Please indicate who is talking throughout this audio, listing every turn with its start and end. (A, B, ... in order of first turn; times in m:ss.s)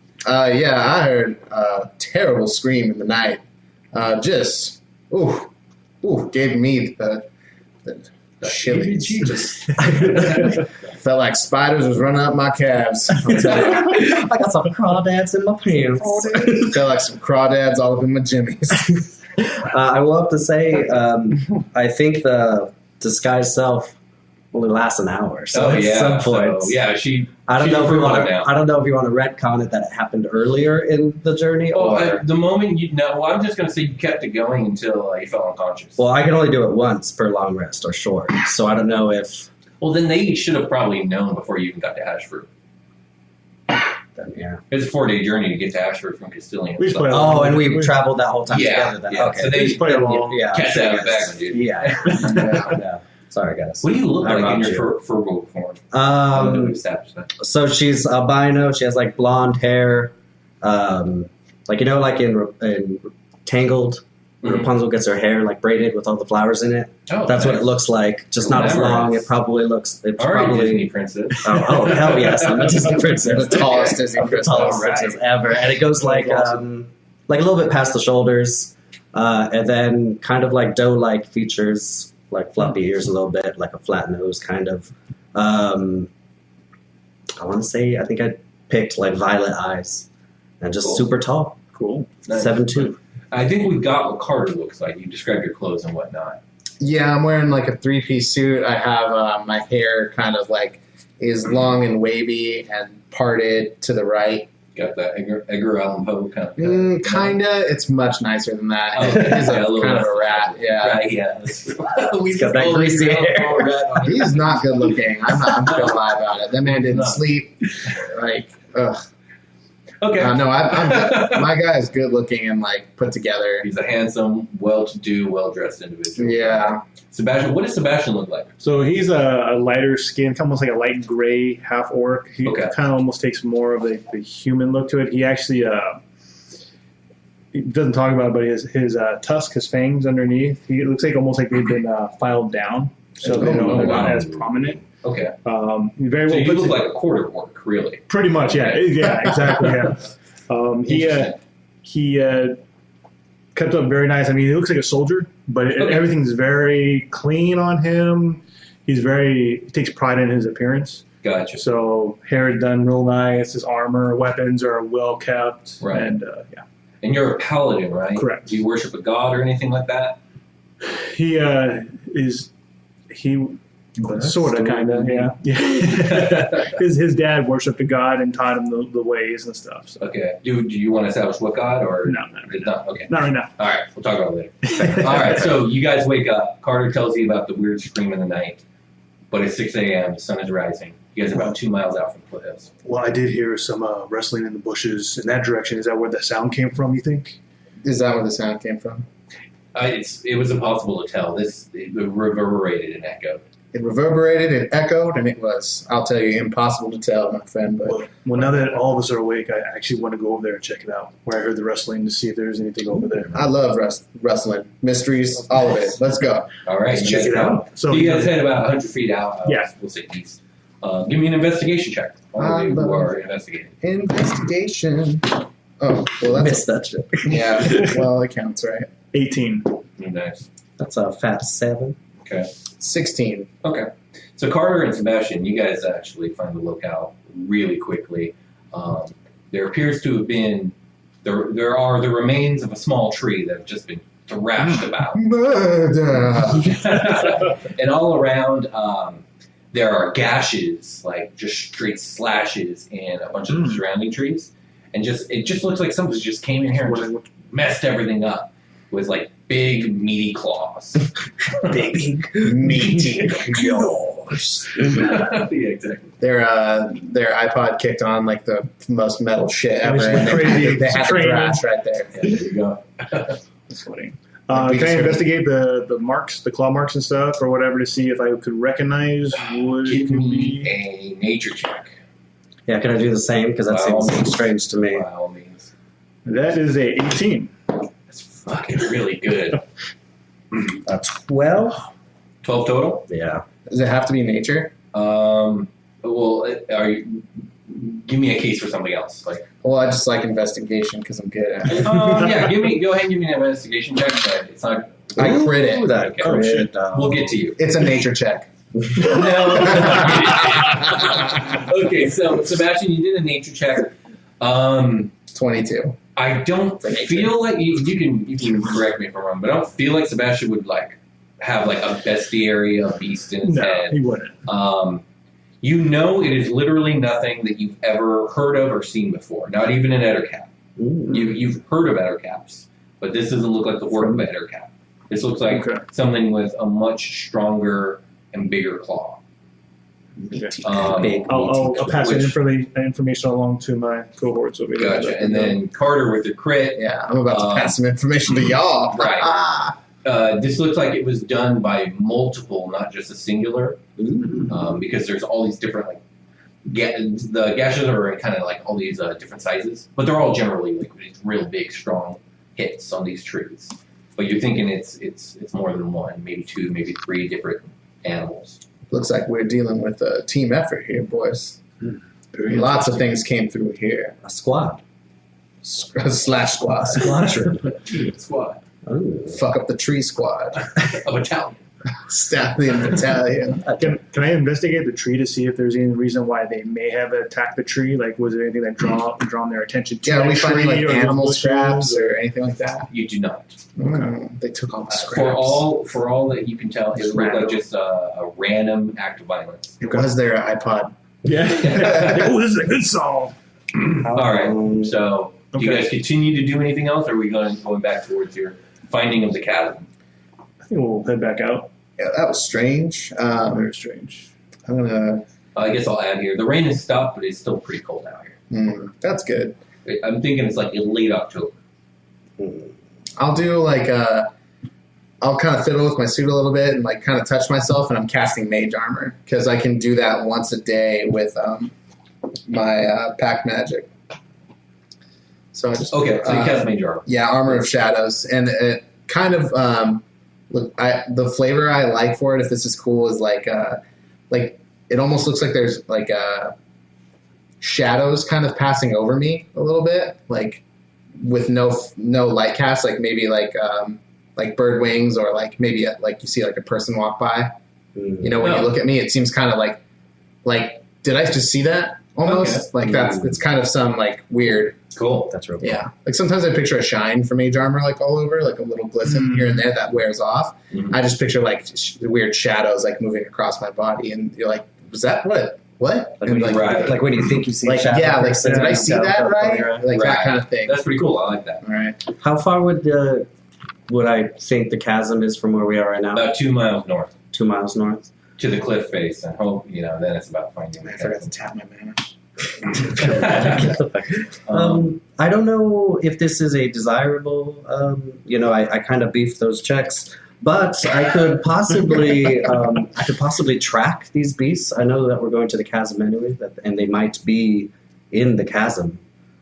0:00.2-0:03.4 A
0:03.9-0:05.5 A
0:06.0-0:07.3 A
0:07.8-0:14.0 A
0:08.4-0:10.7 B
0:13.2-0:16.9 C
0:16.2-0:19.0 A
0:19.4-0:24.0 C
0:24.5-0:26.8 C
0:25.5-0:28.5 B
0:27.5-0:32.2 C
0:31.7-0:36.0 B
0:36.0-0:39.5 C
0:39.8-0:42.5 B
0:44.2-0:44.6 C
0:44.7-0:47.5 B
0:46.8-0:48.0 D
0:47.1-0:54.9 C
0:48.5-0:52.8 B
0:49.4-0:50.6 D
0:53.8-0:57.3 B
0:55.9-0:56.8 C
0:57.4-1:10.9 C
1:04.4-1:04.7 B
1:07.1-1:07.7 B
1:08.4-1:09.3 B
1:10.2-1:13.8 B
1:11.4-1:26.1 C
1:13.2-1:15.2 A
1:16.0-1:16.6 D
1:27.4-1:30.1 C
1:30.6-1:31.6 C
1:31.7-1:32.1 D
1:32.2-1:36.4 B
1:32.3-1:33.0 C
1:36.8-1:44.5 A
1:44.7-1:47.4 B
1:46.6-1:51.0 A
1:48.9-1:56.1 B
1:52.3-1:53.7 C
1:54.0-1:59.0 A
1:56.6-1:57.2 B
2:00.0-2:01.5 B
2:00.2-2:03.7 A
2:03.6-2:08.6 B
2:06.2-2:06.8 A
2:08.6-2:16.0 D
2:12.4-2:12.8 B
2:17.5-2:24.8 D
2:23.3-2:24.3 B
2:24.0-2:24.3 C
2:25.0-2:25.4 B
2:25.4-2:26.8 D
2:26.2-2:29.2 B
2:28.1-2:32.6 D
2:30.8-2:31.4 B
2:33.5-2:46.6 D
2:35.8-2:36.1 B
2:41.2-2:41.6 B
2:45.8-2:46.1 B
2:47.0-2:50.2 B
2:48.1-2:48.6 D
2:50.8-2:52.5 D
2:53.1-3:00.0 D
2:54.1-2:55.3 C
2:55.8-2:56.7 B
3:00.0-3:08.6 B
3:02.0-3:03.5 D
3:04.7-3:05.3 D
3:09.3-3:12.7 B
3:12.8-3:17.4 D
3:17.8-3:19.0 A
3:19.7-3:23.4 B
3:23.7-3:28.1 A
3:27.8-3:33.4 D
3:33.3-3:36.5 A
3:36.6-3:43.7 B
3:36.9-3:38.5 D
3:39.4-3:39.7 D
3:42.4-3:43.1 A
3:43.8-3:46.6 A
3:46.2-3:47.8 C
3:47.2-3:48.9 A
3:49.1-3:49.8 D
3:50.0-3:50.5 B
3:50.8-3:52.0 C
3:52.2-3:52.5 B
3:52.8-3:53.5 A
3:53.6-4:05.2 B
4:05.1-4:06.8 A
4:06.5-4:21.9 B
4:13.5-4:13.8 D
4:16.8-4:17.2 D
4:21.7-4:22.9 D
4:22.4-4:24.0 A
4:23.5-4:23.9 D
4:23.8-4:24.4 C
4:24.7-4:26.1 B
4:26.2-4:32.2 A
4:29.8-4:31.6 D
4:32.1-4:33.4 B
4:33.7-4:40.7 D
4:34.5-4:35.3 A
4:39.3-4:42.0 B
4:42.7-4:45.0 C
4:43.7-4:45.7 B
4:46.2-4:47.5 D
4:48.1-4:49.6 B
4:50.8-4:51.9 C
4:52.4-4:53.0 B
4:53.1-4:53.4 C
4:53.7-4:54.7 A
4:54.9-4:59.5 B
4:59.6-5:02.0 A
5:01.7-5:06.4 B
5:05.2-5:05.9 A
5:05.2-5:07.3 C
5:06.2-5:06.7 D
5:06.9-5:07.6 B
5:07.6-5:09.2 A
5:09.0-5:15.1 B
5:09.8-5:10.1 A
5:15.3-5:16.0 A
5:16.2-5:25.0 B
5:16.9-5:17.3 A
5:23.4-5:24.4 D
5:25.6-5:30.5 B
5:30.8-5:31.3 C
5:31.1-5:39.2 B
5:33.9-5:34.3 C
5:35.5-5:35.8 D
5:40.3-5:41.1 A
5:40.3-5:40.6 D
5:40.6-5:42.4 B
5:40.8-5:42.2 C
5:41.2-5:45.6 D
5:44.8-5:47.8 B
5:46.8-5:49.8 A
5:48.9-5:49.3 B
5:50.0-5:53.8 B
5:54.0-5:54.5 C
5:54.5-5:56.0 B
5:56.6-6:08.6 B
6:08.9-6:11.6 A
6:12.3-6:12.9 D
6:12.4-6:14.2 A
6:14.2-6:14.8 C
6:15.6-6:17.6 A
6:16.9-6:17.6 C
6:17.6-6:18.6 B
6:18.8-6:19.4 C
6:19.3-6:20.7 A
6:20.7-6:21.6 B
6:22.1-6:23.6 A
6:23.6-6:24.0 C
6:23.7-6:32.1 D
6:30.0-6:32.9 A
6:32.9-6:33.6 B
6:33.8-6:35.6 A
6:33.8-6:34.1 D
6:34.9-6:39.8 B
6:37.0-6:37.6 D
6:39.8-6:40.1 D
6:39.8-6:40.9 A
6:41.2-6:43.3 D
6:41.7-6:42.1 B
6:41.7-6:42.3 A
6:44.1-6:44.9 C
6:44.1-6:49.9 B
6:45.5-6:45.9 D
6:50.6-6:51.7 D
6:52.0-6:53.7 A
6:53.4-6:54.3 D
6:54.7-6:55.2 A
6:55.5-6:58.4 B
6:58.5-6:59.6 A
6:59.8-7:01.6 B
7:02.4-7:02.7 C
7:03.2-7:04.3 A
7:05.2-7:11.7 A
7:12.5-7:13.9 A
7:15.5-7:26.5 A
7:15.9-7:17.1 B
7:27.6-7:30.6 A
7:31.2-7:37.5 A
7:38.0-7:38.4 C
7:38.2-7:39.8 A
7:38.4-7:38.7 B
7:40.4-7:44.8 A
7:42.2-7:42.7 B
7:42.8-7:43.4 C
7:44.9-7:45.3 B
7:45.3-7:45.8 C
7:45.6-8:00.9 A
7:49.1-7:49.6 D
7:56.2-7:59.9 C
7:56.3-7:57.1 B
7:58.4-7:59.1 D
7:59.9-8:01.6 B
8:01.6-8:02.0 A
8:02.2-8:03.3 C
8:03.9-8:06.3 C
8:06.1-8:07.1 B
8:07.3-8:08.1 C
8:08.4-8:11.3 B
8:10.8-8:12.1 A
8:12.8-8:13.8 B
8:12.9-8:29.0 C
8:13.0-8:13.2 A
8:14.4-8:14.9 B